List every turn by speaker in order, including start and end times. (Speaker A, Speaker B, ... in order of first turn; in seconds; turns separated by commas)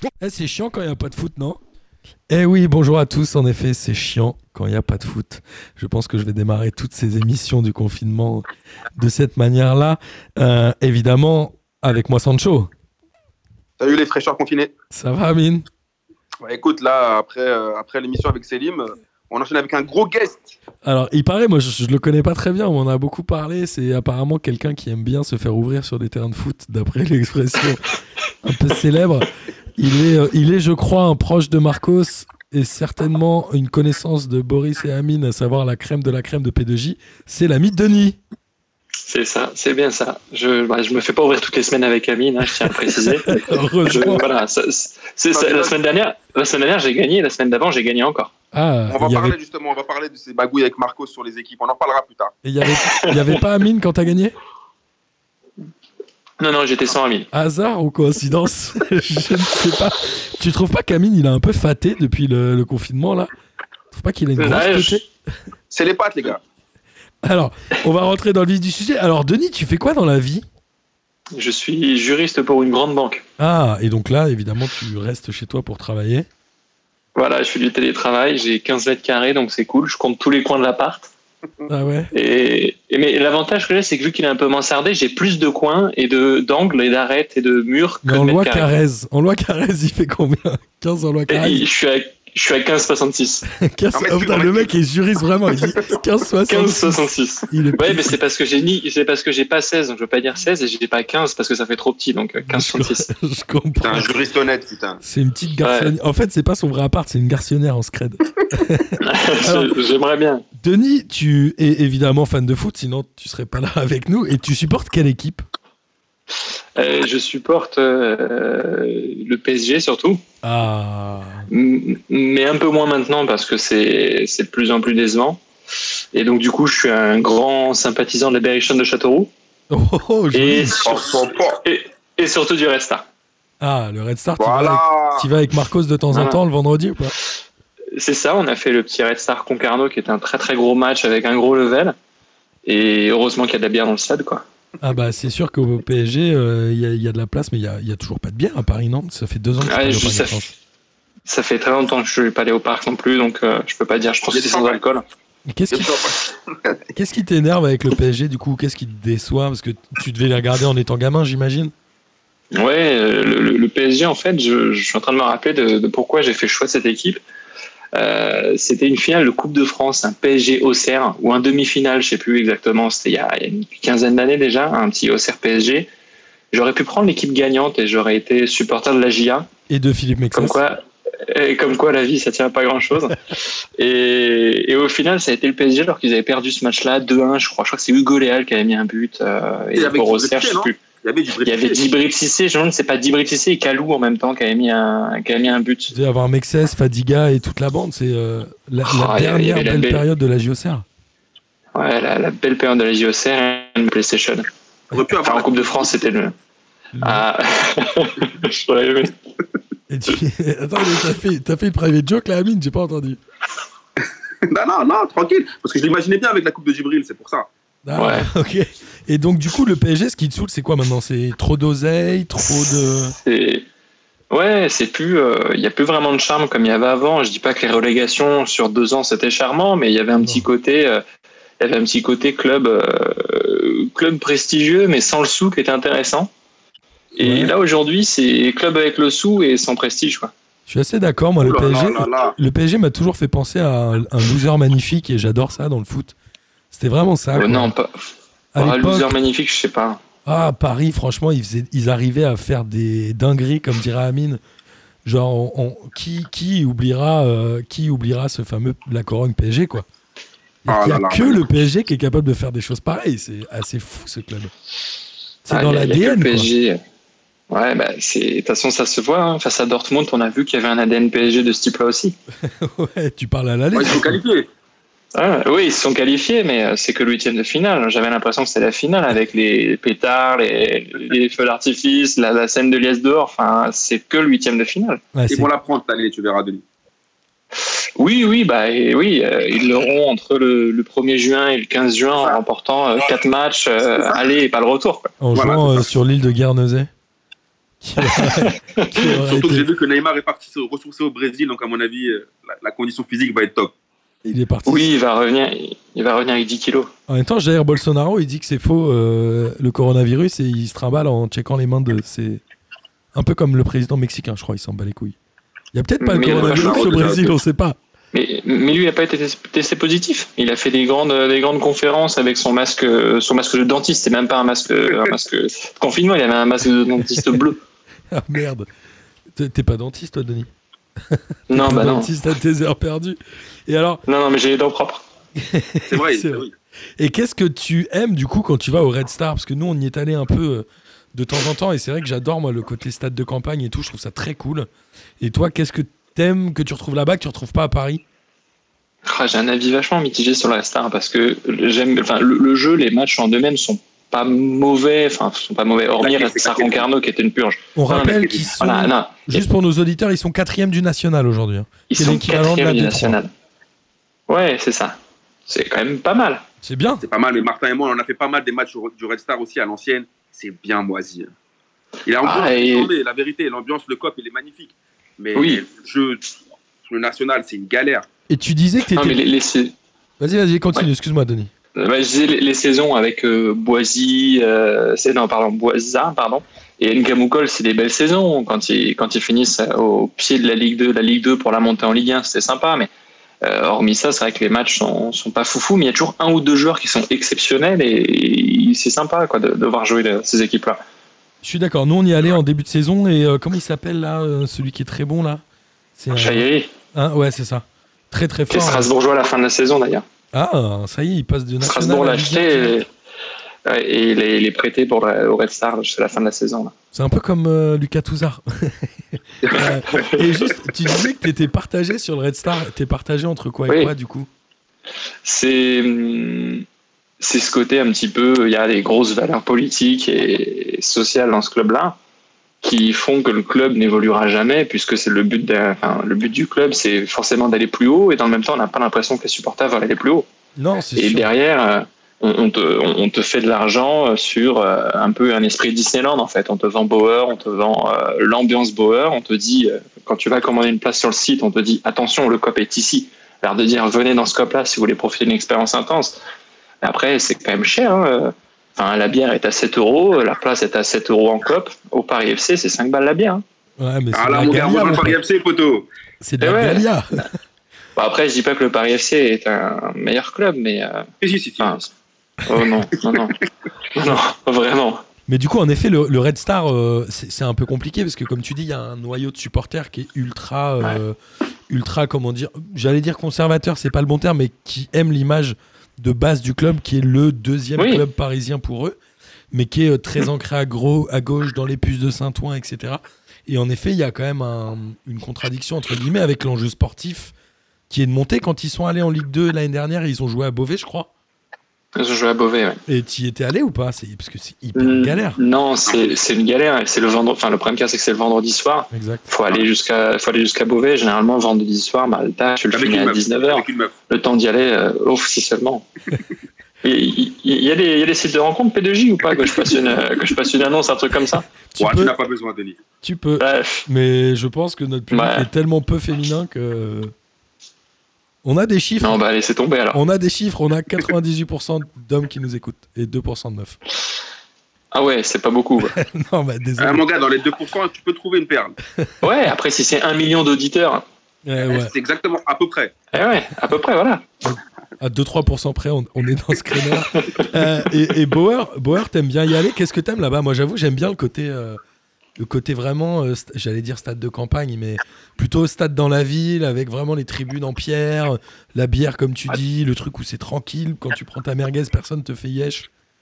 Speaker A: 0.2-1.6, Speaker A: 2.3-12.7, Speaker B: 13.8-14.7, Speaker A: 14.9-15.7, Speaker B: 16.4-20.6, Speaker A: 20.8-38.2, Speaker C: 39.0-48.3, Speaker A: 42.7-44.3, Speaker B: 45.3-45.7, Speaker A: 48.5-49.4, Speaker B: 48.9-52.3, Speaker A: 52.4-54.4, Speaker C: 52.7-53.4, Speaker C: 56.4-57.3, Speaker A: 57.3-63.3, Speaker A: 63.9-65.1, Speaker C: 64.4-65.0, Speaker B: 65.7-66.4, Speaker A: 67.2-70.5, Speaker C: 71.3-73.2, Speaker A: 73.4-76.3, Speaker C: 77.1-81.1, Speaker A: 81.7-82.1, Speaker C: 82.1-88.7, Speaker A: 88.0-91.6, Speaker C: 91.3-93.5, Speaker A: 93.5-98.2, Speaker B: 93.9-94.7, Speaker B: 95.5-95.9, Speaker C: 96.5-103.1, Speaker A: 102.4-104.2, Speaker B: 103.8-105.0, Speaker A: 105.0-109.7, Speaker C: 105.6-105.9, Speaker C: 109.0-110.4, Speaker A: 110.5-115.4, Speaker C: 116.8-120.2, Speaker A: 120.4-121.5, Speaker C: 121.5-125.4, Speaker C: 126.1-129.3, Speaker A: 129.7-130.8, Speaker C: 130.3-133.0, Speaker B: 130.8-131.6, Speaker A: 133.6-137.1, Speaker B: 134.4-135.3, Speaker C: 136.1-136.4, Speaker C: 137.9-141.9, Speaker C: 142.6-144.4, Speaker A: 144.8-150.5, Speaker C: 149.6-150.4, Speaker C: 151.2-155.0, Speaker B: 154.3-154.8, Speaker A: 155.5-155.9, Speaker B: 155.7-156.8, Speaker A: 156.9-161.7, Speaker C: 162.5-167.2, Speaker C: 167.9-175.9, Speaker C: 176.5-179.5, Speaker A: 179.7-180.6, Speaker C: 180.3-190.8, Speaker B: 189.7-191.8, Speaker C: 191.4-195.9, Speaker A: 195.9-200.8, Speaker C: 198.9-200.0, Speaker C: 201.7-204.5, Speaker B: 204.9-205.9, Speaker C: 205.2-206.3, Speaker A: 206.9-207.2, Speaker C: 207.0-209.2, Speaker A: 209.9-213.2, Speaker B: 214.5-217.5, Speaker A: 217.8-223.2, Speaker C: 217.9-218.3, Speaker C: 222.4-223.7, Speaker C: 224.3-231.0, Speaker A: 230.2-230.4, Speaker C: 231.6-236.3, Speaker C: 237.1-240.3, Speaker A: 237.2-237.5, Speaker A: 240.7-246.1, Speaker B: 241.4-242.3, Speaker A: 246.7-247.7, Speaker C: 247.3-250.0, Speaker A: 248.5-249.2, Speaker A: 250.2-254.4, Speaker A: 255.0-259.9, Speaker A: 260.6-264.5, Speaker B: 260.7-261.4, Speaker A: 265.4-266.5, Speaker C: 265.5-266.8, Speaker C: 267.5-272.1, Speaker A: 272.4-274.2, Speaker B: 273.7-274.5, Speaker C: 275.1-285.0, Speaker A: 285.1-285.5, Speaker B: 285.3-286.6, Speaker C: 288.0-295.1, Speaker B: 293.9-294.2, Speaker A: 295.2-296.9, Speaker B: 295.3-295.8, Speaker A: 297.8-299.7, Speaker C: 298.0-299.0, Speaker B: 299.2-303.7, Speaker A: 304.2-304.9, Speaker C: 304.6-306.9, Speaker A: 307.1-312.4, Speaker A: 313.1-315.1, Speaker A: 315.7-317.8, Speaker C: 316.0-317.2, Speaker B: 316.2-317.4, Speaker C: 318.1-327.6, Speaker A: 327.1-327.4, Speaker A: 328.1-328.7, Speaker A: 329.3-330.5, Speaker A: 331.0-334.0, Speaker C: 331.5-332.1, Speaker C: 334.1-335.0, Speaker A: 335.4-336.4, Speaker B: 335.9-336.5, Speaker A: 337.0-344.7, Speaker A: 345.2-348.0, Speaker C: 349.1-359.4, Speaker B: 356.0-356.9, Speaker A: 357.8-363.2, Speaker B: 357.9-358.4, Speaker C: 361.9-363.3, Speaker C: 364.3-366.4, Speaker A: 366.6-367.0, Speaker B: 367.0-371.3, Speaker B: 372.0-376.2, Speaker C: 372.2-372.9, Speaker C: 375.3-375.6, Speaker B: 376.9-378.1, Speaker A: 378.3-379.2, Speaker C: 378.9-379.7, Speaker A: 380.2-381.5, Speaker C: 381.8-392.9, Speaker C: 393.4-400.8, Speaker A: 401.4-405.4, Speaker A: 405.9-408.9, Speaker C: 406.1-406.7, Speaker C: 408.5-410.0, Speaker A: 410.3-412.8, Speaker C: 411.6-412.9, Speaker C: 413.6-416.7, Speaker A: 416.9-424.3, Speaker C: 419.5-420.5, Speaker C: 425.2-426.6, Speaker C: 427.2-431.9, Speaker C: 432.6-440.3, Speaker A: 440.6-441.3, Speaker C: 440.9-456.2, Speaker C: 456.8-463.4, Speaker A: 463.8-465.2, Speaker B: 464.1-465.9, Speaker A: 466.2-467.3, Speaker C: 466.4-466.9, Speaker C: 467.9-471.1, Speaker B: 471.2-471.8, Speaker C: 471.6-471.9, Speaker C: 472.4-473.4, Speaker C: 473.9-475.0, Speaker A: 475.3-481.1, Speaker A: 481.7-489.0, Speaker C: 487.8-488.0, Speaker A: 489.5-497.3, Speaker A: 497.9-501.1, Speaker C: 501.9-502.8, Speaker A: 502.9-505.4, Speaker C: 504.8-515.9, Speaker B: 505.9-506.2, Speaker A: 508.9-509.2, Speaker B: 512.7-513.9, Speaker C: 516.8-521.5, Speaker A: 521.7-522.1, Speaker B: 521.8-522.8, Speaker A: 523.0-527.1, Speaker C: 523.4-523.9, Speaker C: 525.1-525.5, Speaker A: 528.4-529.2, Speaker C: 529.0-530.0, Speaker A: 529.9-533.8, Speaker C: 534.9-536.0, Speaker A: 535.8-537.0, Speaker B: 536.8-538.8, Speaker C: 539.2-541.0, Speaker A: 541.5-541.9, Speaker B: 541.6-542.9, Speaker C: 543.1-544.3, Speaker A: 544.4-551.8, Speaker C: 547.1-547.5, Speaker A: 552.4-562.9